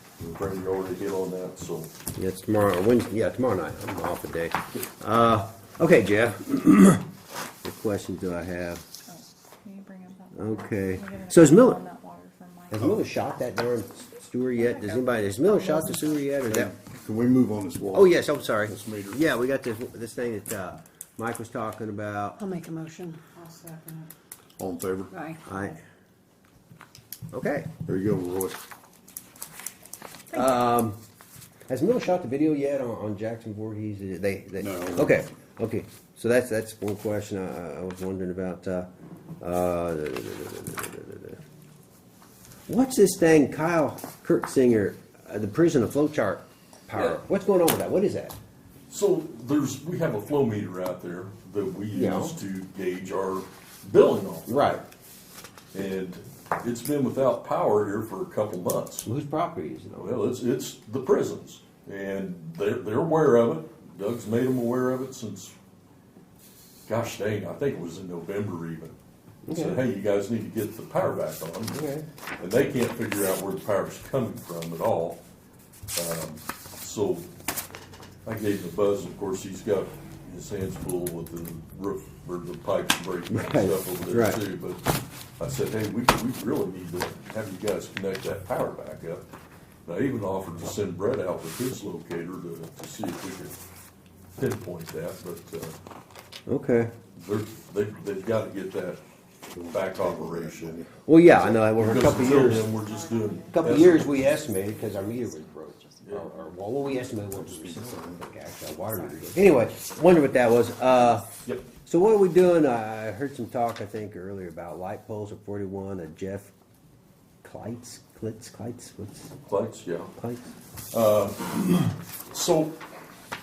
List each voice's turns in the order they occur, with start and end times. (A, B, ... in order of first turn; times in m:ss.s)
0:00.2-0:01.9 A
0:02.2-0:07.0 B
0:07.6-0:08.8 B
0:09.0-0:13.8 C
0:10.3-0:11.8 B
0:12.7-0:16.7 B
0:14.5-0:16.4 C
0:16.4-0:19.2 D
0:17.9-0:22.4 B
0:22.4-0:24.1 E
0:24.6-0:25.1 D
0:25.1-0:25.4 E
0:25.4-0:25.8 B
0:27.3-0:27.8 B
0:27.8-0:28.6 D
0:30.3-0:31.0 B
0:31.7-0:38.9 B
0:34.6-0:35.2 D
0:39.4-0:41.4 B
0:42.7-0:48.3 B
0:46.9-0:47.2 A
0:48.9-0:54.8 A
0:51.9-0:52.4 B
0:54.5-0:54.8 B
0:55.7-0:59.1 A
0:59.0-1:00.2 B
1:00.0-1:05.5 A
1:06.9-1:09.0 A
1:09.4-1:09.8 B
1:09.5-1:11.8 A
1:11.7-1:12.0 B
1:12.4-1:15.2 A
1:15.9-1:17.2 A
1:18.2-1:29.2 A
1:23.3-1:24.4 B
1:29.8-1:33.5 A
1:34.4-1:35.7 A
1:36.5-1:36.9 B
1:37.2-1:39.0 A
1:39.5-1:41.8 D
1:39.7-1:40.8 A
1:41.0-1:42.7 B
1:41.7-1:44.2 A
1:42.1-1:46.5 C
1:43.5-1:51.3 B
1:46.0-1:46.3 A
1:47.2-1:48.2 D
1:51.8-1:56.5 B
1:57.4-1:59.3 B
1:59.5-2:00.1 A
2:00.2-2:00.4 B
2:00.9-2:02.8 A